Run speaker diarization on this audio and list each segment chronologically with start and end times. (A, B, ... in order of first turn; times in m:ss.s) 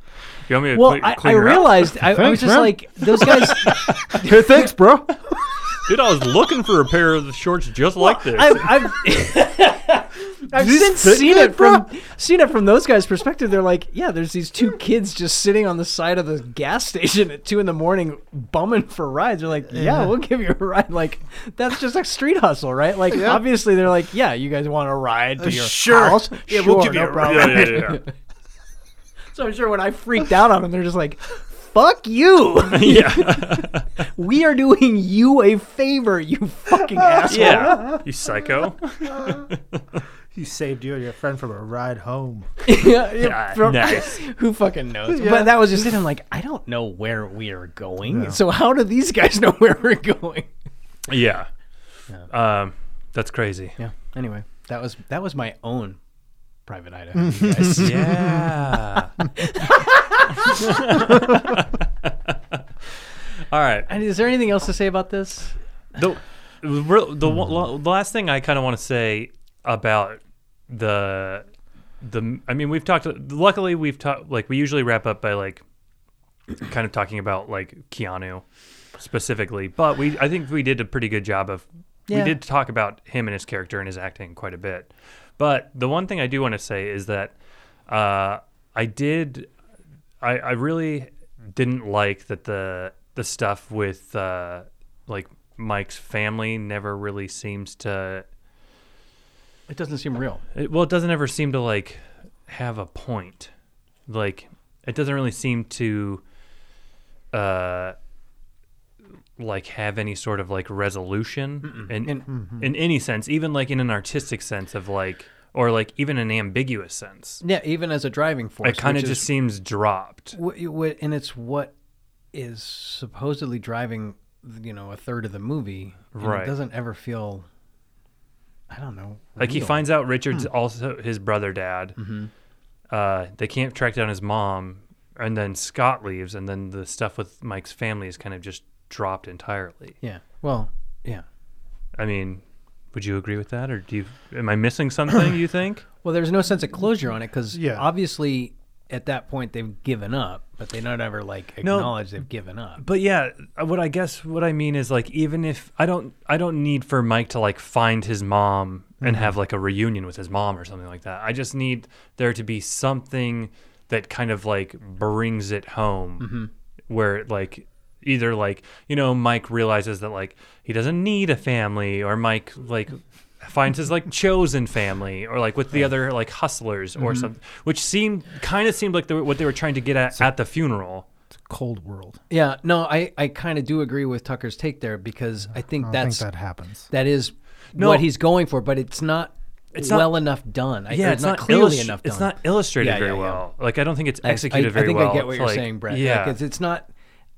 0:00.5-0:02.0 A
0:00.7-0:04.7 B
0:02.1-0:03.5 C
0:04.1-0:05.4 C
0:05.8-0:08.9 A
0:08.0-0:28.1 B
0:10.5-0:11.8 C
0:19.7-0:20.1 C
0:23.1-0:23.4 C
0:25.4-0:27.8 C
0:27.2-0:28.0 A
0:29.3-0:38.0 B
0:32.7-0:33.9 A
0:37.0-0:38.0 C
0:37.3-0:40.0 A
0:39.2-0:39.4 C
0:40.3-0:42.5 C
0:42.6-0:50.5 B
0:43.2-0:44.2 A
0:45.1-0:45.8 C
0:48.0-0:48.4 C
0:51.1-0:51.5 A
0:52.3-0:53.8 A
0:53.8-0:56.0 B
0:56.7-0:58.4 B
0:57.2-0:58.4 C
0:57.7-0:59.2 A
0:59.4-1:00.9 B
1:00.4-1:02.6 A
1:03.5-1:03.9 A
1:03.9-1:05.6 B
1:05.9-1:11.4 A
1:12.0-1:15.6 A
1:16.6-1:18.4 A
1:19.0-1:27.3 A
1:22.1-1:22.3 B
1:27.9-1:29.5 A
1:30.2-1:38.2 A
1:39.7-1:40.4 B
1:40.5-1:43.5 A
1:44.1-1:46.2 A
1:47.3-1:47.9 A
1:49.4-1:57.4 A
1:51.6-1:52.3 B
1:57.4-1:59.3 B
1:58.6-2:00.4 A
2:00.3-2:01.7 B
2:02.3-2:07.4 B
2:06.1-2:06.5 A
2:08.7-2:09.9 B
2:09.4-2:12.0 A
2:12.0-2:12.3 B
2:12.9-2:20.0 A
2:20.0-2:21.2 B
2:22.0-2:22.4 A
2:22.9-2:25.8 A
2:26.0-2:32.8 B
2:27.5-2:27.8 C
2:31.6-2:31.9 A
2:32.8-2:46.4 A
2:46.2-2:46.5 B
2:46.9-3:01.1 A
2:57.0-2:57.3 B
3:01.3-3:02.2 C
3:02.3-3:06.3 B
3:05.8-3:06.9 C
3:06.9-3:13.4 B
3:07.8-3:08.0 A
3:09.7-3:10.2 A
3:10.9-3:16.4 A
3:14.2-3:16.9 B